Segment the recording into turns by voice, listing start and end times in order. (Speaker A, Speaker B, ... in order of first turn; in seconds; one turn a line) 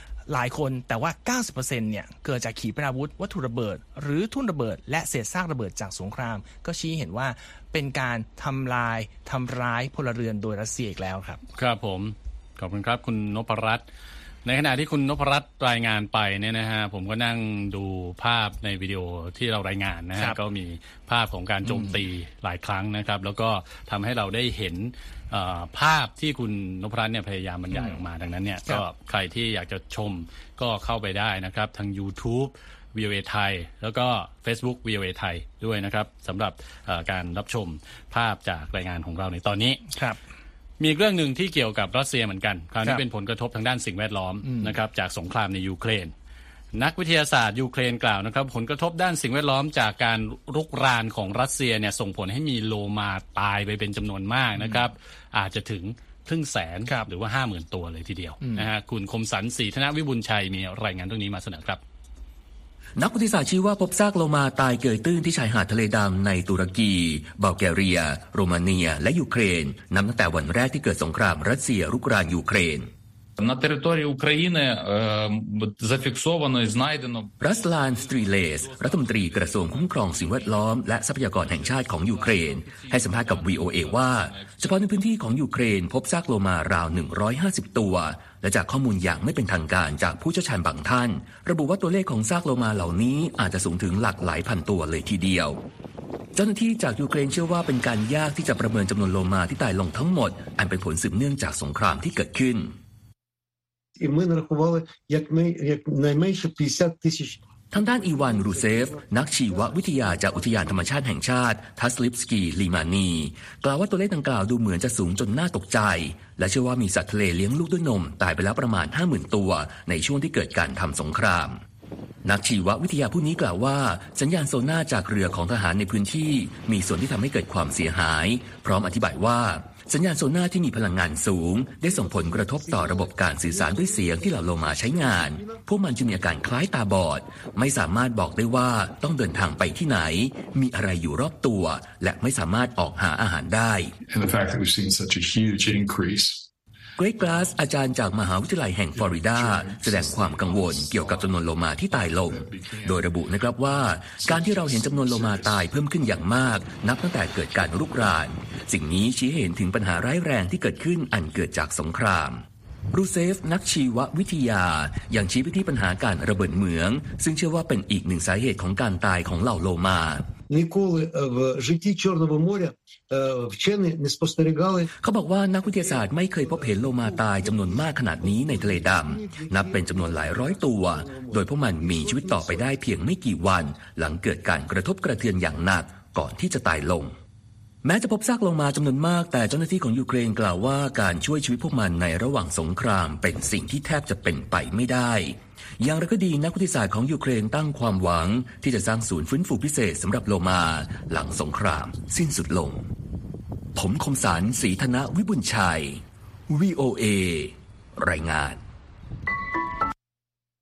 Speaker A: 0.3-11.4
Speaker B: 11.6-13.8
Speaker B: 14.4-39.8
Speaker A: 21.6-22.0
Speaker A: 27.7-28.0
Speaker A: 39.9-40.2
Speaker B: 40.8-46.1
Speaker A: 44.4-44.7
Speaker B: 46.7-61.8
Speaker A: 54.6-54.8
Speaker A: 58.4-58.7
Speaker C: 63.0-72.9
Speaker D: 73.4-77.4
Speaker C: 77.4-95.6
Speaker D: 78.0-80.6
Speaker D: 81.4-84.7
Speaker C: 96.3-102.7
Speaker E: 104.0-111.0
Speaker C: 107.7-121.5
Speaker C: 122.2-143.9
Speaker E: 131.9-135.6
Speaker F: 144.1-146.5
Speaker C: 147.0-162.4
Speaker F: 148.9-153.1
Speaker F: 154.2-155.8
Speaker C: 162.9-170.2
Speaker E: 170.5-174.9
Speaker C: 175.0-187.1
Speaker E: 175.6-182.8
Speaker C: 187.8-195.3
Speaker C: 195.8-202.8
Speaker C: 203.8-205.9
Speaker C: 206.5-207.5
Speaker C: 208.0-208.6